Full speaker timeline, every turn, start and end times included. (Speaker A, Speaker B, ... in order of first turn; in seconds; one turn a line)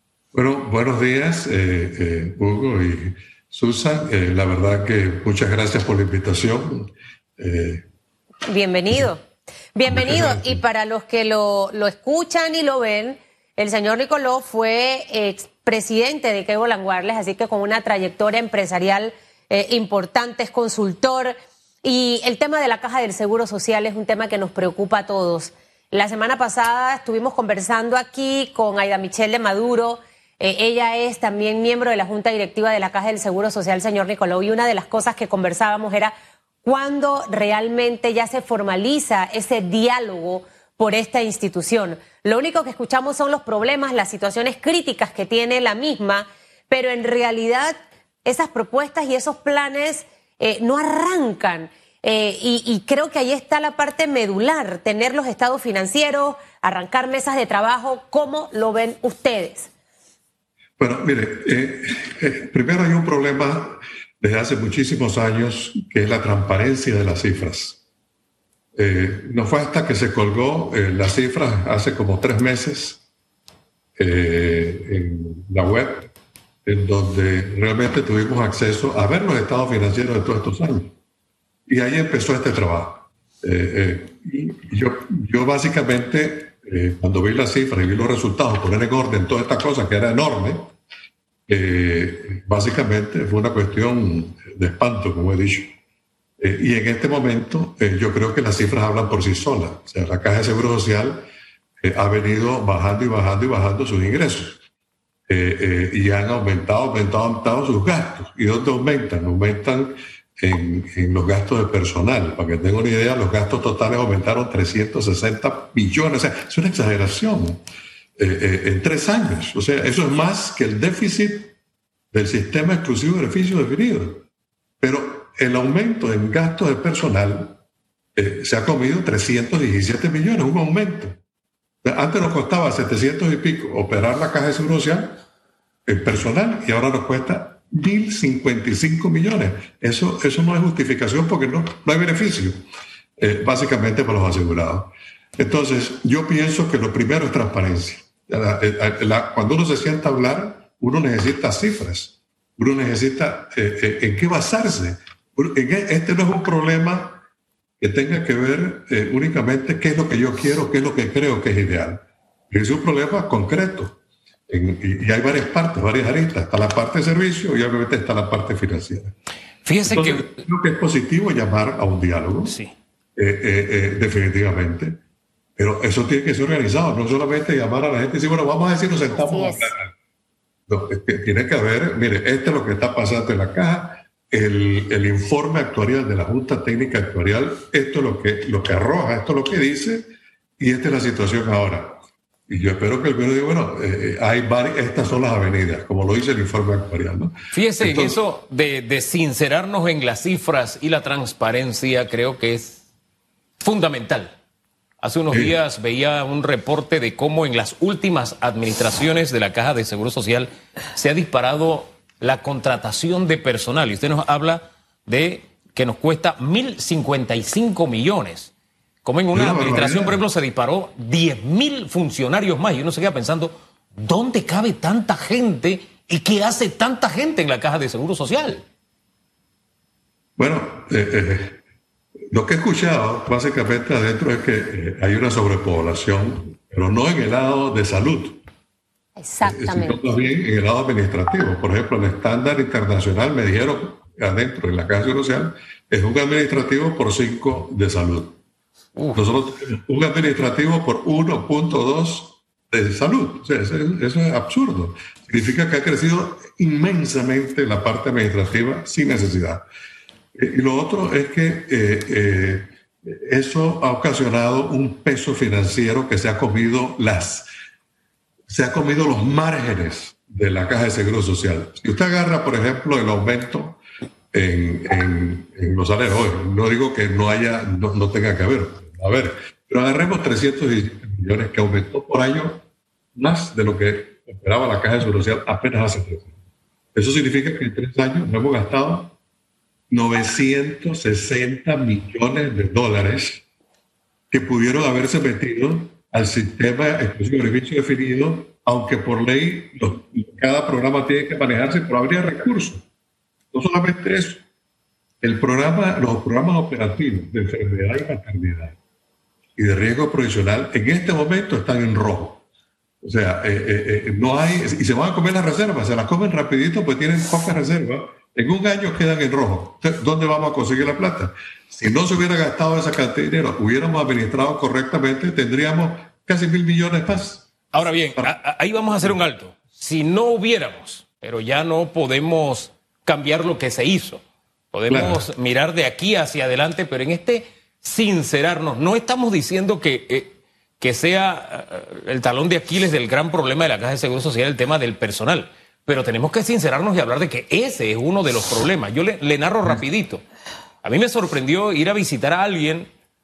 Speaker A: 0.3-7.8
Speaker B: 8.5-9.2
Speaker B: 9.7-59.7
Speaker A: 9.9-10.6
Speaker A: 60.8-67.8
Speaker A: 68.7-73.0
Speaker A: 74.0-76.1
Speaker A: 76.6-80.9
Speaker A: 81.7-90.7
Speaker A: 91.5-95.7
Speaker A: 96.4-101.2
Speaker A: 101.8-104.6
Speaker A: 105.3-117.6
Speaker A: 118.2-121.5
Speaker A: 122.1-124.2
Speaker A: 124.8-127.6
Speaker A: 128.2-131.2
Speaker A: 131.8-135.2
Speaker A: 135.8-142.6
Speaker A: 143.2-157.2
Speaker A: 157.8-169.1
Speaker C: 169.6-170.4
Speaker A: 169.9-172.5
Speaker C: 172.5-172.7
Speaker A: 173.2-175.0
Speaker A: 175.6-179.9
Speaker B: 179.1-179.7
Speaker A: 180.7-198.2
Speaker C: 197.5-202.8
Speaker C: 203.6-204.3
Speaker C: 205.0-218.5
Speaker C: 219.0-228.6
Speaker A: 219.3-220.2
Speaker A: 230.4-231.6
Speaker A: 232.3-238.4
Speaker B: 239.2-240.0
Speaker A: 239.4-248.4
Speaker C: 248.9-249.2
Speaker A: 249.1-259.6
Speaker A: 260.3-267.5
Speaker A: 268.5-273.8
Speaker A: 274.3-282.6
Speaker A: 283.1-286.3
Speaker A: 286.9-289.1
Speaker A: 289.9-293.4
Speaker A: 294.3-302.8
Speaker A: 303.5-304.4
Speaker A: 305.2-308.8
Speaker A: 309.6-312.4
Speaker A: 313.0-327.5
Speaker C: 327.7-350.2
Speaker A: 334.9-335.2
Speaker C: 350.8-352.9